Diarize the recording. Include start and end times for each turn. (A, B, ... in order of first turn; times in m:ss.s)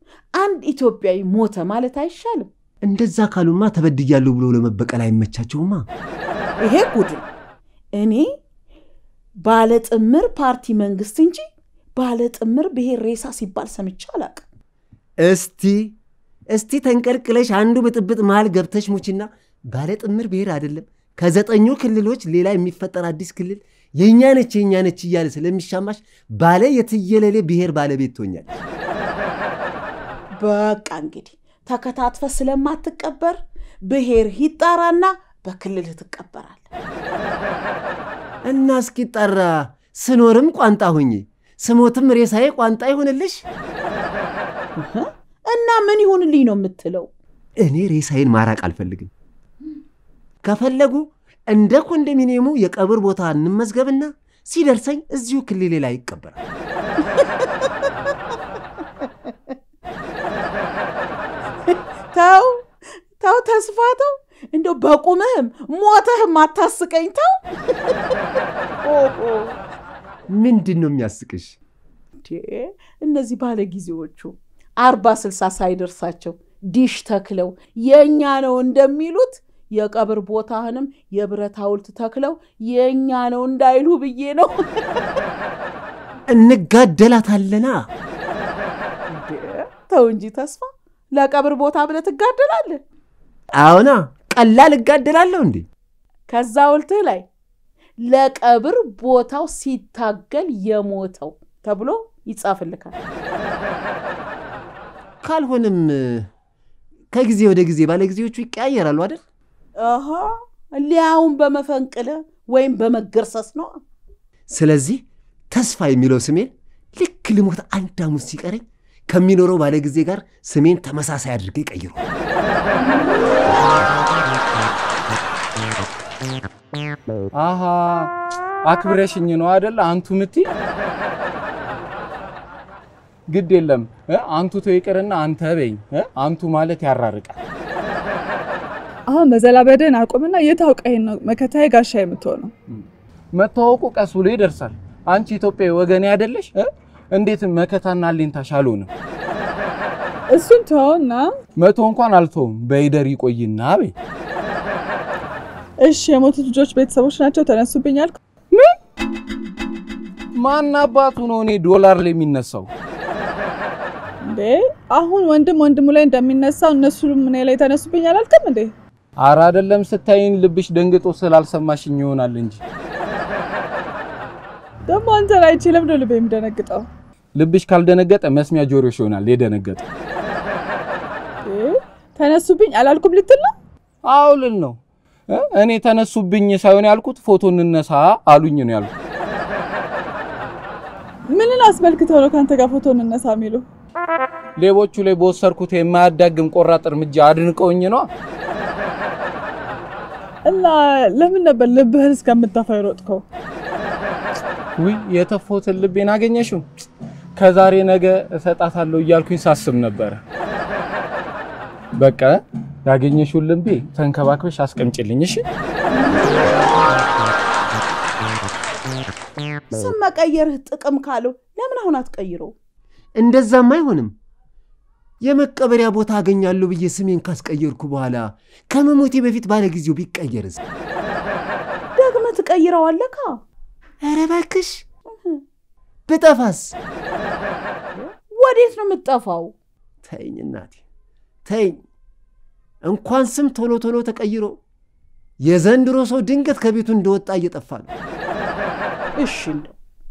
0:00.4-0:02.5 A
0:02.8-0:05.9 B
0:06.6-0:07.3 A
0:08.0-0:08.3 A
0:09.4-0:11.4 A
0:12.0-0:14.4 A
0:15.2-0:16.0 B
0:16.5-0:28.6 B
0:30.4-0:33.4 A
0:33.9-0:36.7 A
0:38.4-0:43.4 B
0:44.8-0:47.1 A
0:47.6-0:49.1 B
0:50.4-0:56.4 B
0:57.1-0:57.9 A
1:02.1-1:02.5 A
1:03.2-1:08.2 A
1:08.8-1:09.6 A
1:10.3-1:11.6 B
1:12.3-1:25.0 A
1:26.3-1:27.9 B
1:29.1-1:32.8 A
1:33.6-1:35.7 B
1:36.3-1:37.3 A
1:38.0-1:43.0 A
1:45.2-1:46.3 B
1:47.1-1:49.2 B
1:49.8-1:53.8 A
1:54.5-2:02.0 B
2:07.3-2:08.1 C
2:08.6-2:10.5 C
2:13.3-2:17.4 C
2:19.1-2:22.5 D
2:22.7-2:28.9 C
2:30.3-2:31.3 D
2:31.6-2:33.9 C
2:35.8-2:38.2 D
2:40.4-2:42.7 C
2:44.3-2:48.7 D
2:49.2-2:52.6 C
2:54.9-2:56.8 D
2:57.4-2:59.8 C
3:01.4-3:03.5 D
3:04.1-3:04.8 C
3:05.3-3:08.9 C
3:11.3-3:13.6 D
3:14.6-3:18.1 C
3:20.5-3:23.2 D
3:24.8-3:26.6 C
3:27.4-3:30.2 C
3:32.0-3:35.4 C
3:39.7-3:42.5 A
3:43.2-3:44.1 B
3:45.2-3:50.6 B
3:52.0-3:53.4 A
3:54.0-3:54.8 B
3:55.1-3:55.4 A
3:56.1-3:56.8 B
3:58.0-3:59.5 A
4:00.0-4:00.8 B
4:01.5-4:01.8 B
4:02.8-4:04.6 B
4:05.4-4:07.9 B
4:09.2-4:09.8 A